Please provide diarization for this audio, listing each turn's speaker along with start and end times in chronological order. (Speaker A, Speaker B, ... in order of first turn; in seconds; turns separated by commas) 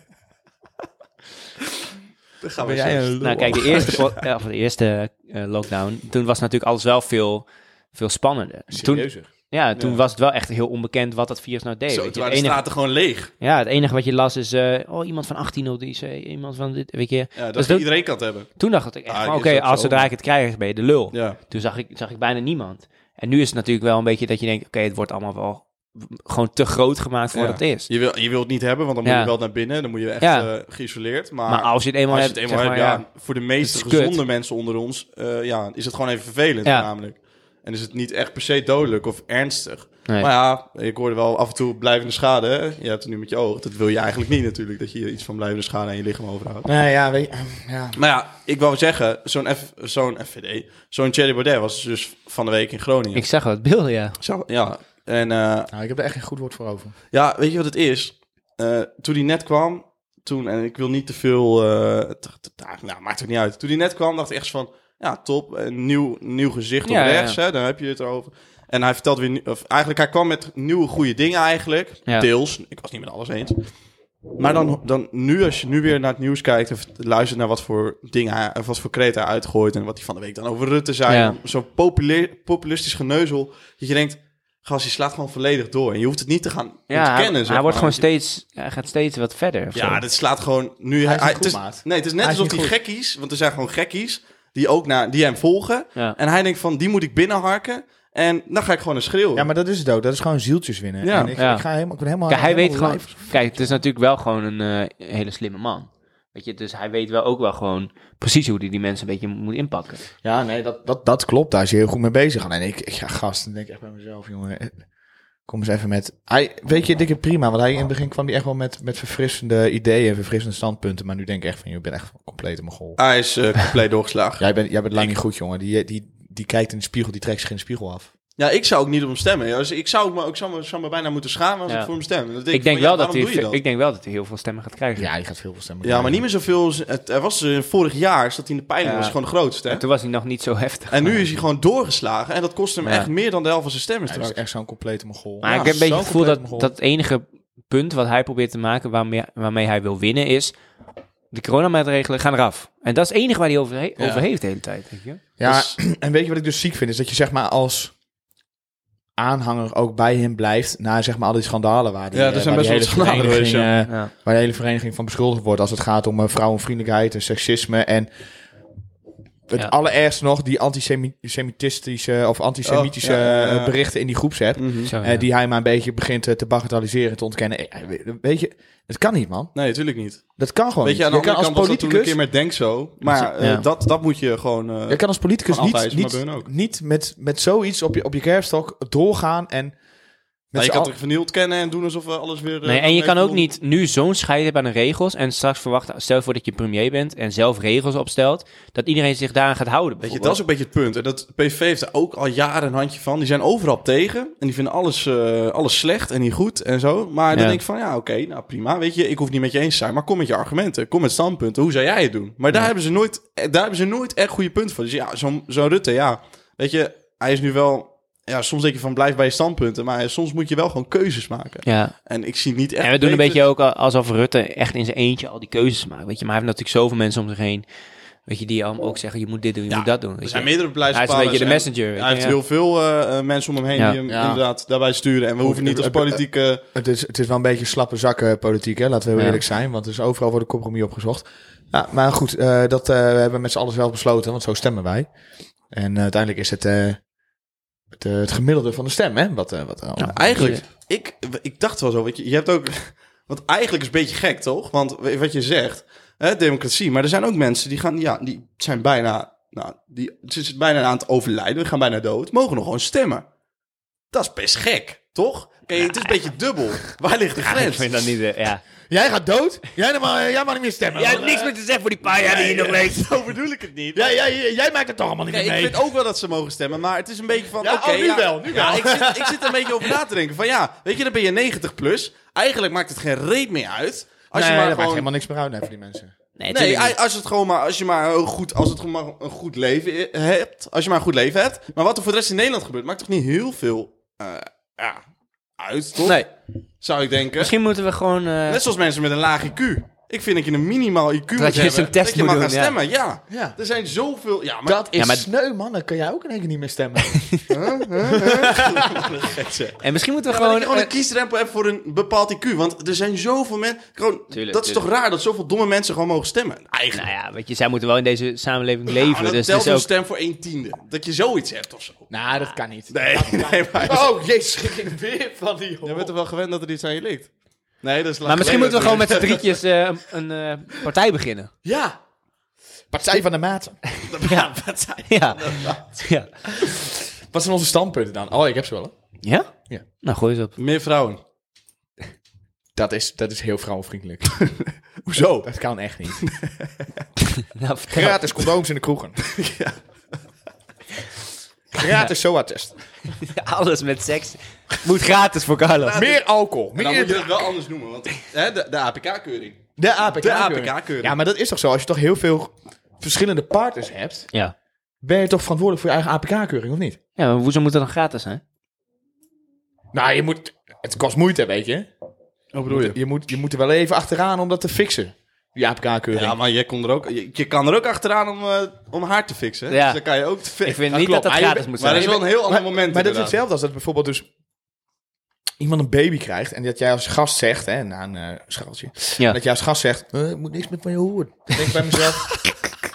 Speaker A: 2.4-4.0, Speaker B: 2.6-4.0, Speaker C: 3.2-12.7, Speaker B: 8.7-9.3, Speaker A: 9.8-10.0, Speaker A: 11.9-13.3, Speaker C: 13.4-17.9, Speaker A: 17.4-20.1, Speaker C: 18.5-27.9, Speaker A: 21.1-21.4, Speaker A: 27.3-46.7, Speaker C: 29.1-29.3, Speaker C: 30.2-30.5, Speaker C: 31.5-34.2, Speaker B: 46.6-48.0, Speaker A: 48.0-53.3, Speaker C: 53.1-54.2, Speaker A: 54.2-55.7, Speaker B: 55.7-56.9, Speaker A: 57.1-73.6, Speaker C: 66.8-67.4, Speaker A: 74.4-88.0, Speaker C: 81.1-81.4, Speaker C: 86.9-90.0, Speaker A: 89.7-99.5, Speaker B: 91.0-92.8, Speaker B: 99.3-103.8, Speaker A: 101.0-101.4, Speaker C: 101.4-101.7, Speaker C: 102.3-110.0, Speaker B: 110.2-114.8, Speaker B: 115.5-123.0, Speaker A: 123.0-125.2, Speaker B: 124.4-128.1, Speaker A: 128.4-133.6, Speaker C: 132.5-135.1, Speaker B: 135.0-136.2, Speaker A: 135.8-139.8, Speaker C: 138.8-139.2, Speaker C: 139.7-141.2, Speaker A: 140.9-144.4, Speaker C: 142.8-143.1, Speaker B: 144.1-146.7, Speaker C: 145.4-150.6, Speaker C: 151.3-155.2, Speaker A: 154.0-154.2, Speaker B: 155.4-157.9, Speaker A: 155.4-155.8, Speaker B: 159.2-168.1, Speaker A: 162.1-163.7, Speaker C: 163.9-164.1, Speaker B: 169.5-179.5, Speaker A: 172.7-173.8, Speaker A: 174.6-174.9, Speaker C: 174.9-175.2, Speaker A: 179.6-186.5, Speaker B: 180.4-182.2, Speaker C: 183.2-183.7, Speaker B: 184.9-189.8, Speaker B: 190.5-190.9, Speaker A: 190.6-193.5, Speaker C: 192.7-200.4, Speaker A: 200.0-223.4, Speaker C: 207.3-207.6, Speaker C: 221.7-221.9, Speaker C: 222.8-227.7, Speaker C: 228.3-232.4, Speaker A: 229.7-236.6, Speaker B: 234.1-234.4, Speaker B: 235.4-236.2, Speaker B: 236.7-245.1, Speaker C: 239.2-239.4, Speaker B: 245.7-247.0, Speaker B: 247.9-250.4, Speaker C: 250.0-250.6, Speaker A: 250.0-263.2, Speaker A: 264.1-268.1, Speaker C: 265.8-266.1, Speaker C: 267.4-268.6, Speaker B: 268.9-271.5, Speaker C: 271.0-273.1, Speaker A: 272.1-274.2, Speaker B: 273.9-275.9, Speaker A: 275.3-285.1, Speaker B: 277.6-279.9, Speaker B: 284.3-286.1, Speaker C: 286.4-286.9, Speaker A: 286.5-295.0, Speaker A: 295.6-296.2, Speaker C: 296.0-296.3, Speaker A: 296.8-297.5, Speaker C: 297.4-298.6, Speaker A: 298.5-304.9, Speaker C: 301.4-302.8, Speaker B: 303.3-303.6, Speaker B: 304.6-307.4, Speaker C: 304.9-305.3, Speaker C: 307.2-307.5, Speaker A: 307.5-317.1, Speaker B: 308.0-309.1, Speaker C: 309.8-310.9, Speaker C: 314.3-314.8, Speaker C: 316.9-319.9, Speaker A: 318.9-322.1, Speaker B: 322.1-326.1, Speaker A: 322.9-324.1, Speaker A: 325.8-327.3, Speaker A: 327.8-329.6, Speaker C: 328.3-331.5, Speaker B: 331.6-332.0, Speaker B: 332.9-333.8, Speaker A: 334.1-336.1, Speaker C: 334.2-334.5, Speaker C: 335.1-336.3, Speaker B: 336.5-338.9, Speaker C: 339.2-339.5, Speaker C: 340.0-340.5, Speaker A: 340.6-341.2, Speaker B: 342.8-344.4, Speaker A: 344.4-345.5, Speaker B: 345.4-346.3, Speaker A: 346.2-346.7, Speaker C: 347.4-348.4, Speaker B: 347.9-349.2, Speaker A: 349.2-349.8, Speaker B: 351.7-352.8, Speaker C: 353.2-356.1, Speaker A: 355.8-356.2, Speaker B: 355.9-357.5, Speaker A: 356.8-359.6, Speaker B: 359.8-364.3, Speaker A: 360.1-361.2, Speaker B: 365.0-367.0, Speaker C: 367.2-368.4, Speaker B: 369.9-371.9, Speaker A: 372.5-373.0, Speaker B: 372.7-376.4, Speaker A: 376.1-380.9, Speaker C: 379.7-380.0, Speaker C: 380.6-382.2, Speaker B: 380.9-384.3, Speaker A: 381.8-383.4, Speaker B: 385.6-392.3